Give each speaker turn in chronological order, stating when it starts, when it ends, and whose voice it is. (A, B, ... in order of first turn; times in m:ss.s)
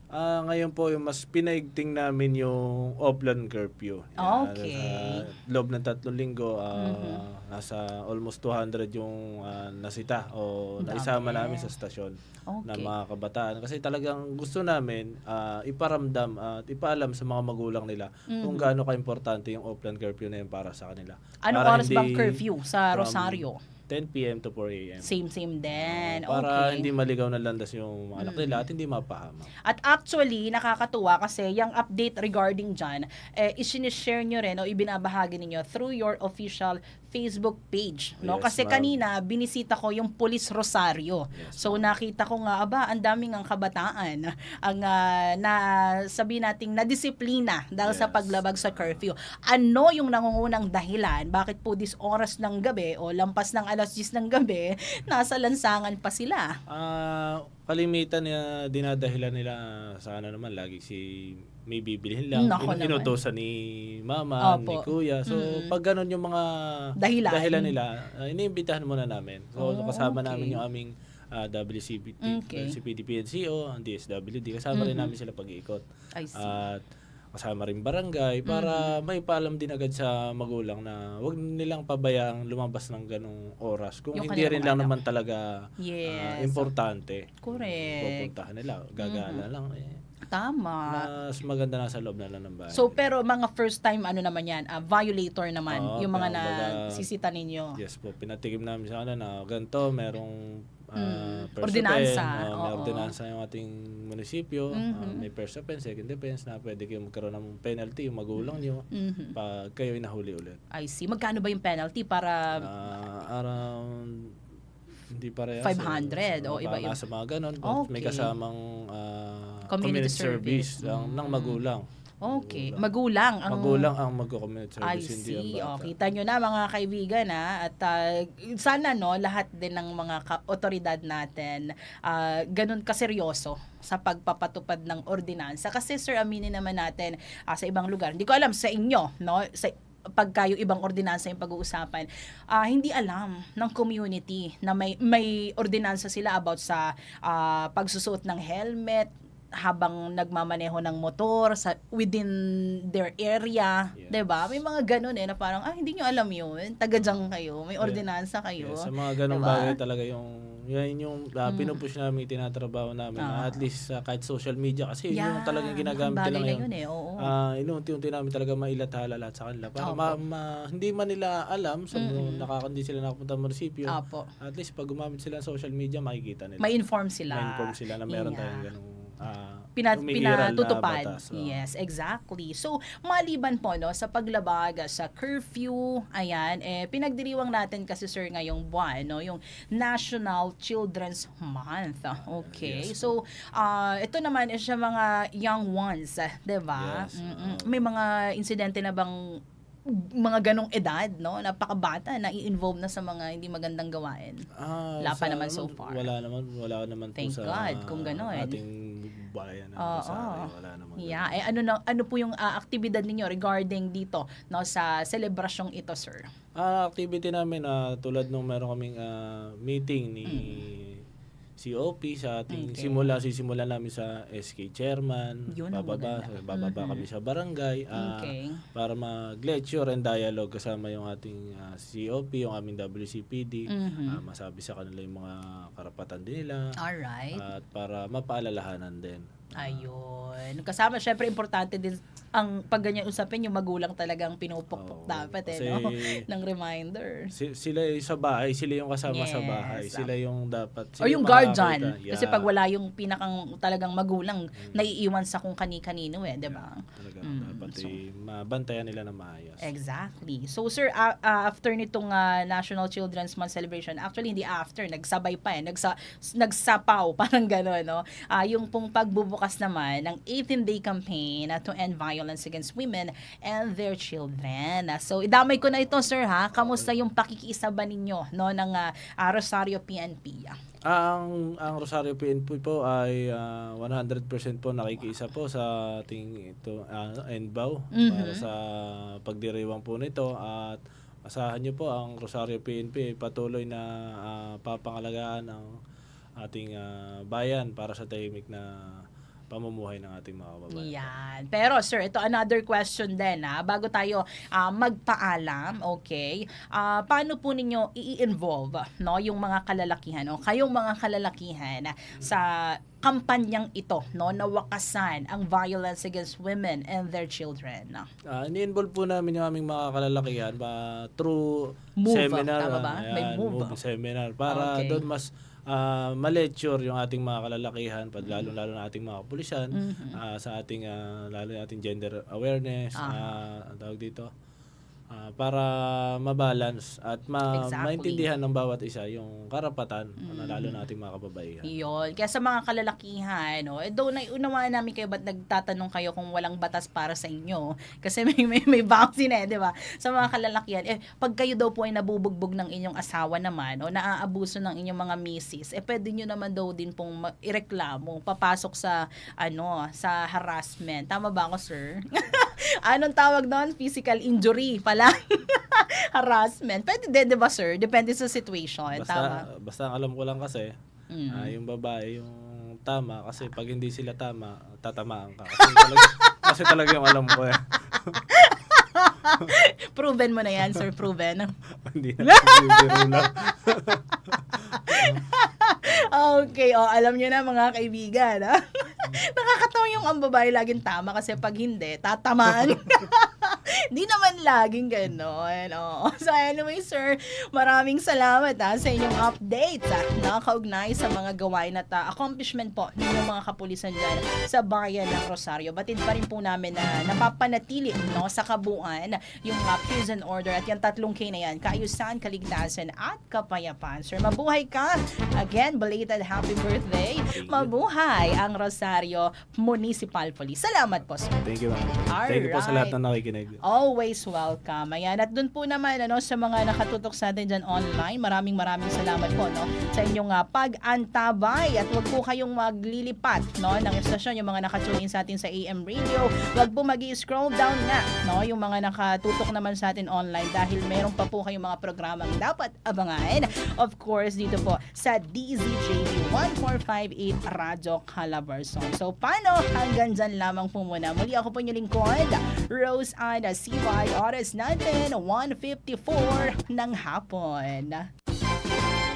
0:00.1-0:12.2 A
0:04.2-0:05.2 B
0:06.8-0:07.2 B
0:10.8-0:11.7 B
0:12.5-0:12.9 B
0:12.7-0:22.4 A
0:18.3-0:18.7 B
0:21.5-0:23.6 B
0:22.9-0:25.2 A
0:25.0-0:26.9 B
0:25.7-0:29.5 A
0:28.2-0:28.6 B
0:29.7-0:45.6 B
0:38.2-0:38.9 A
0:41.4-0:41.9 A
0:46.1-0:56.5 B
0:47.8-0:49.0 A
0:56.7-1:15.8 A
1:02.4-1:03.1 B
1:04.4-1:05.7 B
1:07.0-1:07.7 B
1:09.6-1:10.6 B
1:12.2-1:12.7 B
1:14.7-1:15.1 B
1:16.2-1:16.6 B
1:16.4-1:16.8 A
1:17.4-1:30.0 A
1:18.5-1:18.9 B
1:24.2-1:24.9 B
1:25.8-1:26.7 B
1:27.4-1:28.3 B
1:29.0-1:29.4 B
1:30.3-1:31.0 B
1:30.9-1:33.0 A
1:32.7-1:37.8 B
1:35.7-1:37.0 A
1:37.8-1:40.4 A
1:41.0-1:50.6 A
1:41.0-1:43.1 B
1:44.8-1:45.2 B
1:48.4-1:49.4 B
1:50.7-1:52.6 B
1:52.6-1:54.3 A
1:55.2-2:02.8 A
1:55.6-1:57.0 B
1:57.7-1:58.3 B
1:59.7-2:01.6 B
2:02.2-2:03.9 B
2:03.5-2:05.9 A
2:04.8-2:29.1 B
2:29.6-2:32.3 B
2:32.9-2:39.8 B
2:38.6-2:46.7 A
2:41.5-2:41.8 B
2:43.2-2:43.6 B
2:45.1-2:47.3 B
2:47.3-2:56.7 A
2:49.8-2:50.2 B
2:52.0-2:52.4 B
2:53.9-2:54.3 B
2:56.6-2:58.7 B
2:57.3-3:01.6 A
2:59.8-3:19.1 B
3:12.3-3:13.2 A
3:16.8-3:17.8 A
3:20.2-3:24.4 B
3:24.6-3:31.4 A
3:25.0-3:26.1 B
3:27.2-3:28.6 B
3:29.8-3:30.5 B
3:31.0-3:36.3 B
3:36.6-3:41.0 A
3:40.3-3:40.6 B
3:41.6-3:56.6 A
3:42.5-3:43.1 B
3:45.5-3:47.0 B
3:48.0-3:48.6 B
3:53.7-3:54.2 B
3:56.8-3:57.4 B
3:57.4-3:59.9 A
3:59.6-4:07.3 B
4:04.8-4:06.1 A
4:07.3-4:12.5 A
4:09.1-4:10.1 B
4:11.0-4:18.0 B
4:14.6-4:14.9 A
4:16.5-4:19.6 A
4:19.6-4:40.6 B
4:36.6-4:37.0 A
4:40.9-4:55.7 A
4:48.0-4:48.4 B
4:56.4-5:01.1 A
5:00.7-5:18.1 B
5:18.3-5:34.3 A
5:22.0-5:23.8 B
5:24.5-5:25.0 B
5:28.2-5:28.5 B
5:29.8-5:30.2 B
5:33.0-5:33.4 B
5:35.1-5:41.7 A
5:37.5-5:38.3 B
5:40.2-5:40.8 B
5:41.7-6:09.4 B
6:08.9-6:10.7 A
6:11.1-6:11.5 B
6:11.3-6:18.2 A
6:15.6-6:16.4 B
6:18.3-6:21.5 B
6:21.9-6:25.2 A
6:22.2-6:23.3 B
6:24.7-7:01.4 B
6:25.9-6:26.4 A
6:57.3-6:57.7 A
7:01.4-7:03.6 A
7:02.1-7:02.9 B
7:03.7-7:38.1 B